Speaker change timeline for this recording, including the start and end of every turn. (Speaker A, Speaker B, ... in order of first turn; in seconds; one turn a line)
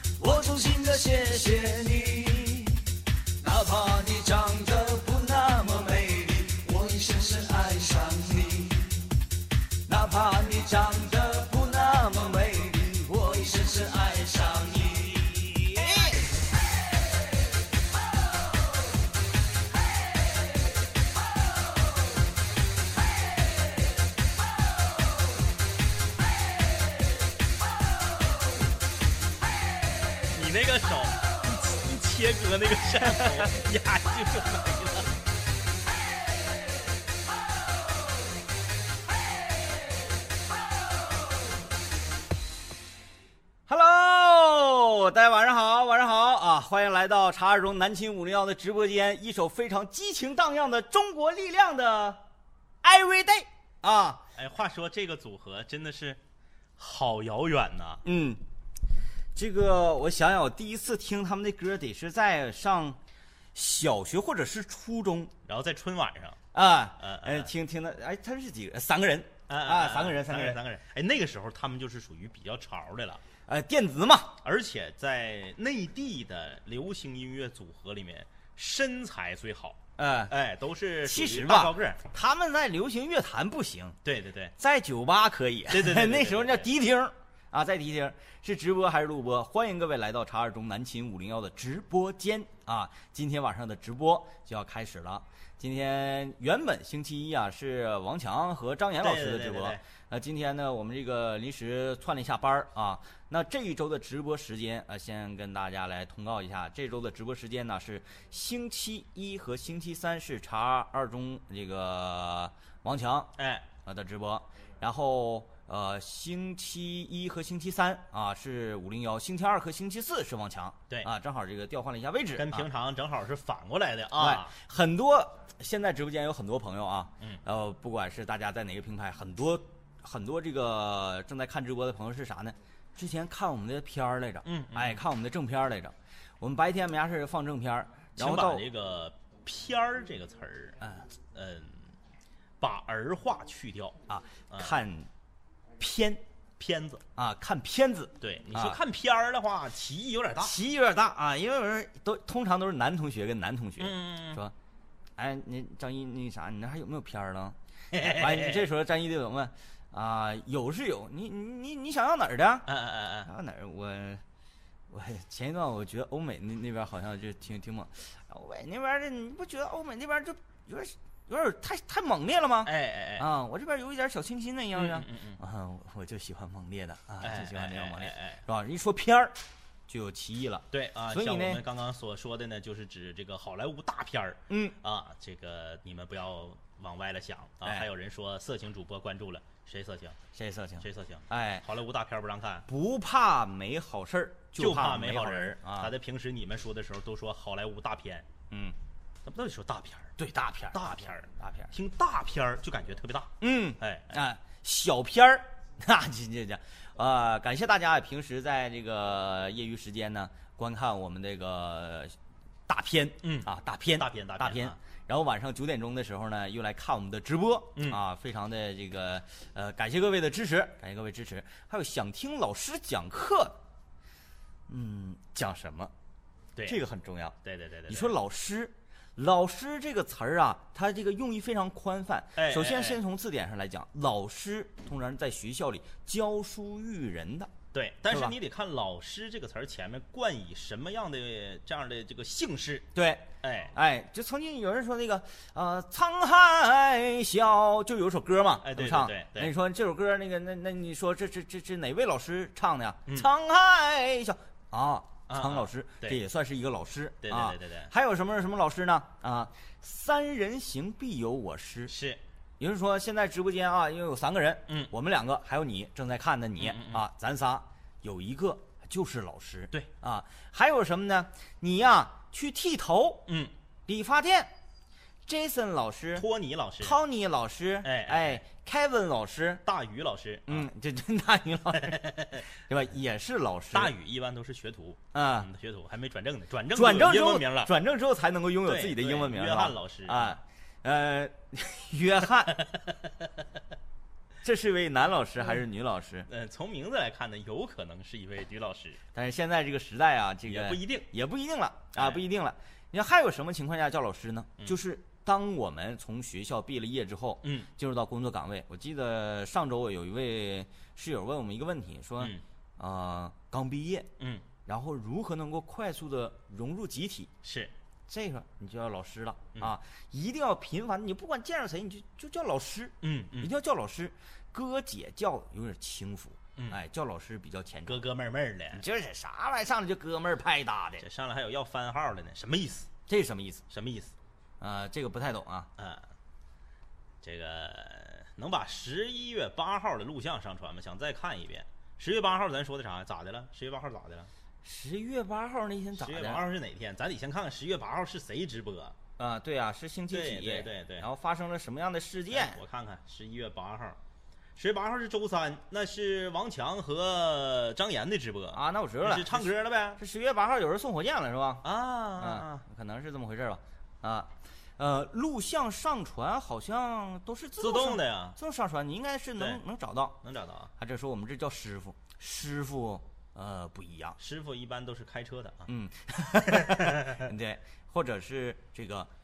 Speaker A: 0.2-2.8
Speaker A: 3.4-9.0
Speaker A: 9.9-16.3
Speaker B: 30.3-35.1
Speaker A: 43.7-52.2
Speaker A: 52.8-54.2
Speaker B: 54.4-56.2
Speaker B: 56.8-58.0
Speaker A: 58.0-58.4
Speaker A: 59.4-63.0
Speaker A: 63.5-65.3
Speaker B: 65.5-66.4
Speaker A: 66.5-70.6
Speaker B: 67.0-67.5
Speaker B: 69.5-73.2
Speaker A: 73.5-74.4
Speaker B: 74.4-82.0
Speaker A: 80.0-80.3
Speaker A: 81.0-84.0
Speaker B: 84.0-84.5
Speaker A: 84.6-122.7
Speaker B: 85.7-86.7
Speaker B: 99.0-99.8
Speaker B: 113.4-113.7
Speaker B: 122.4-124.6
Speaker A: 124.2-138.7
Speaker B: 134.4-135.1
Speaker B: 138.2-141.8
Speaker A: 140.8-141.1
Speaker B: 142.6-144.0
Speaker A: 144.1-145.1
Speaker B: 144.5-144.8
Speaker A: 145.8-146.2
Speaker B: 146.6-147.0
Speaker A: 147.2-148.8
Speaker B: 148.2-150.6
Speaker A: 150.4-154.5
Speaker B: 153.8-154.4
Speaker A: 155.2-162.7
Speaker B: 157.9-158.7
Speaker B: 162.7-163.3
Speaker A: 163.2-164.2
Speaker A: 164.9-179.4
Speaker B: 172.7-173.3
Speaker B: 174.7-175.4
Speaker B: 177.2-178.4
Speaker A: 179.9-181.6
Speaker B: 180.7-190.2
Speaker A: 184.5-184.8
Speaker A: 190.3-191.7
Speaker B: 190.8-192.7
Speaker A: 192.7-195.9
Speaker B: 194.6-198.3
Speaker A: 198.5-198.8
Speaker B: 199.2-200.2
Speaker A: 200.2-201.7
Speaker B: 200.7-204.2
Speaker A: 203.4-212.2
Speaker A: 212.7-223.6
Speaker B: 213.2-214.8
Speaker B: 217.8-218.0
Speaker A: 224.7-225.9
Speaker A: 226.7-227.4
Speaker B: 227.4-228.1
Speaker A: 227.9-237.5
Speaker B: 232.4-233.0
Speaker B: 237.7-242.9
Speaker A: 238.1-238.4
Speaker A: 242.9-261.9
Speaker B: 243.4-243.7
Speaker B: 248.6-249.5
Speaker B: 255.3-256.2
Speaker B: 257.2-257.9
Speaker B: 261.9-262.2
Speaker A: 262.6-273.3
Speaker B: 266.6-267.1
Speaker B: 273.3-273.5
Speaker A: 273.9-274.5
Speaker A: 275.3-276.2
Speaker B: 276.1-277.0
Speaker A: 276.8-279.6
Speaker B: 277.8-278.4
Speaker B: 279.6-280.7
Speaker A: 280.5-283.9
Speaker B: 281.8-282.4
Speaker B: 283.7-287.8
Speaker A: 285.1-285.5
Speaker A: 286.7-292.6
Speaker B: 288.6-290.4
Speaker A: 294.4-296.3
Speaker B: 296.3-299.0
Speaker A: 299.1-314.1
Speaker B: 300.5-301.1
Speaker B: 301.9-302.2
Speaker B: 307.4-307.7
Speaker B: 314.2-314.4
Speaker A: 314.6-317.3
Speaker B: 317.4-317.7
Speaker A: 318.1-328.0
Speaker B: 323.0-323.5
Speaker B: 327.9-328.8
Speaker A: 328.7-331.1
Speaker B: 331.0-332.9
Speaker A: 333.1-333.6
Speaker B: 333.7-334.1
Speaker A: 334.6-335.7
Speaker B: 335.8-336.1
Speaker B: 337.2-344.3
Speaker A: 344.6-346.4
Speaker B: 346.0-349.0
Speaker A: 349.2-352.6
Speaker B: 350.1-351.1
Speaker B: 352.3-354.0
Speaker B: 354.6-360.0
Speaker A: 358.5-361.6
Speaker B: 361.6-362.6
Speaker A: 362.2-370.2
Speaker B: 367.6-368.4
Speaker B: 370.2-370.7
Speaker A: 370.8-374.2
Speaker B: 374.2-375.7
Speaker A: 375.7-379.1
Speaker B: 376.5-377.3